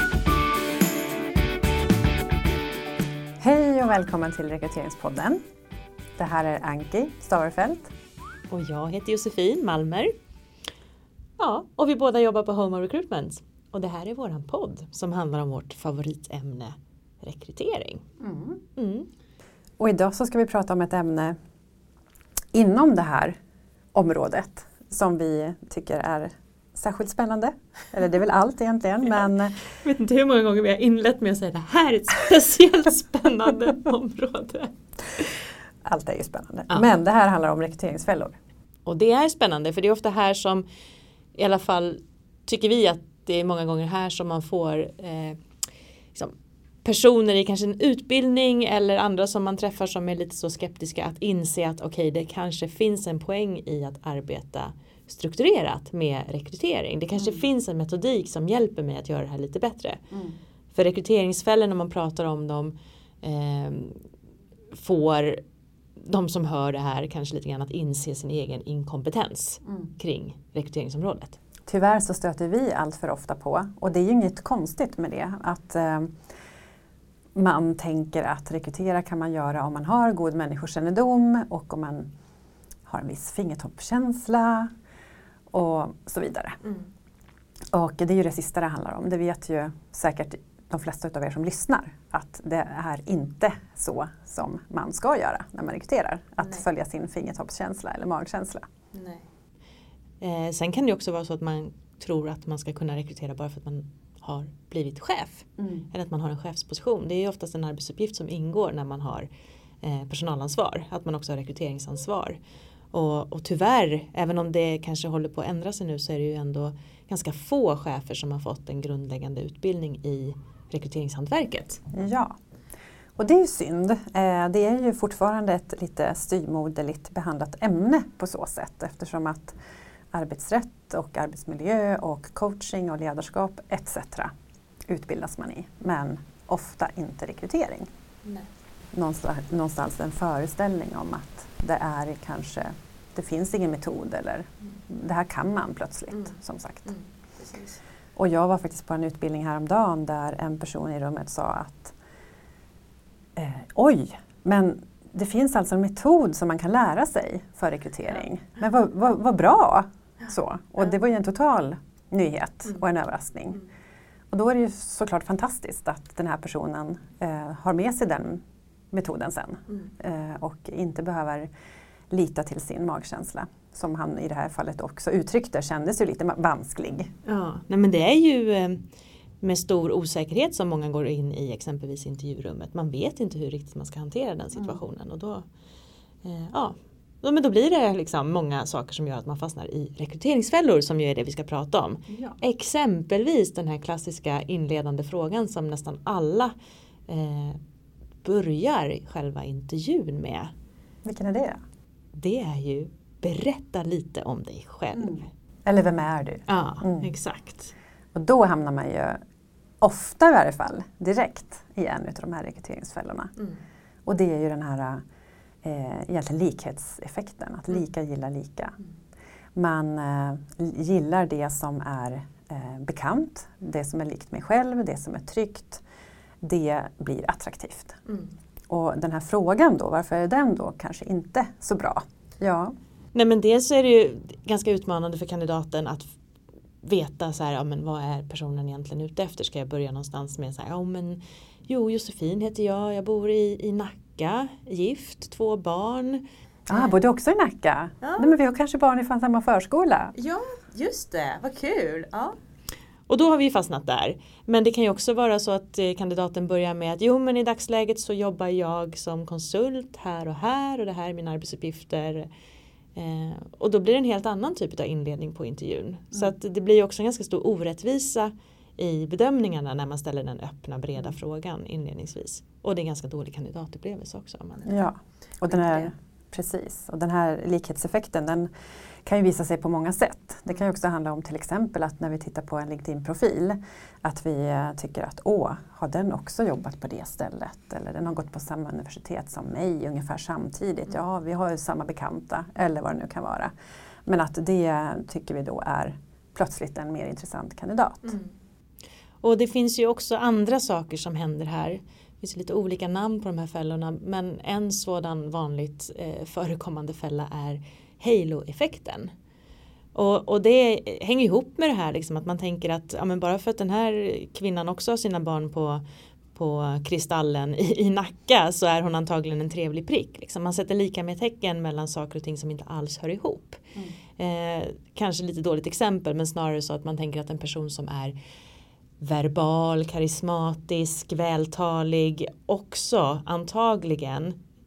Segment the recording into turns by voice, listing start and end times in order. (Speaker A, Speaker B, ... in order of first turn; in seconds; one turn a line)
Speaker A: 3.4-5.4
Speaker A: 6.2-7.9
Speaker B: 8.5-10.1
Speaker B: 11.4-18.1
Speaker A: 18.2-18.6
Speaker B: 18.8-19.1
Speaker A: 19.8-21.4
Speaker A: 22.5-23.4
Speaker A: 23.9-29.6
Speaker B: 29.8-35.3
Speaker A: 35.9-38.4
Speaker B: 38.9-40.6
Speaker B: 41.4-45.4
Speaker B: 46.1-60.0
Speaker A: 57.2-57.5
Speaker A: 60.1-60.4
Speaker B: 60.7-64.0
Speaker B: 64.7-65.4
Speaker B: 66.0-71.4
Speaker A: 71.7-76.2
Speaker A: 77.3-82.1
Speaker A: 82.9-84.7
Speaker A: 85.5-86.6
Speaker A: 87.7-98.7
Speaker B: 98.9-99.2
Speaker B: 100.2-109.3
Speaker A: 105.6-105.8
Speaker B: 109.8-112.4
Speaker B: 112.9-121.8
Speaker A: 121.9-122.3
Speaker A: 123.2-129.6
Speaker A: 130.1-134.3
Speaker A: 134.9-137.9
Speaker A: 138.9-146.9
Speaker B: 146.1-147.8
Speaker A: 148.2-151.9
Speaker A: 153.4-163.6
Speaker A: 164.3-171.5
Speaker A: 172.1-177.1
Speaker B: 177.2-178.9
Speaker B: 179.4-185.4
Speaker A: 184.5-184.8
Speaker B: 186.2-196.5
Speaker A: 192.1-192.4
Speaker B: 197.1-197.6
Speaker B: 198.2-200.5
Speaker A: 201.1-201.6
Speaker B: 202.1-205.2
Speaker A: 204.9-207.1
Speaker B: 206.5-207.7
Speaker A: 208.2-209.2
Speaker A: 209.8-213.3
Speaker A: 214.1-215.0
Speaker A: 215.6-218.8
Speaker A: 219.6-225.8
Speaker A: 226.4-228.0
Speaker A: 228.7-232.7
Speaker B: 233.1-236.2
Speaker B: 236.8-247.0
Speaker A: 246.7-250.1
Speaker B: 248.0-248.3
Speaker B: 250.2-252.4
Speaker B: 253.1-262.3
Speaker B: 262.9-274.9
Speaker A: 274.6-278.5
Speaker B: 275.5-275.9
Speaker A: 279.1-293.5
Speaker A: 294.1-298.2
Speaker B: 299.2-309.1
Speaker B: 309.9-315.8
Speaker B: 316.4-323.6
Speaker B: 324.2-328.1
Speaker B: 329.0-334.4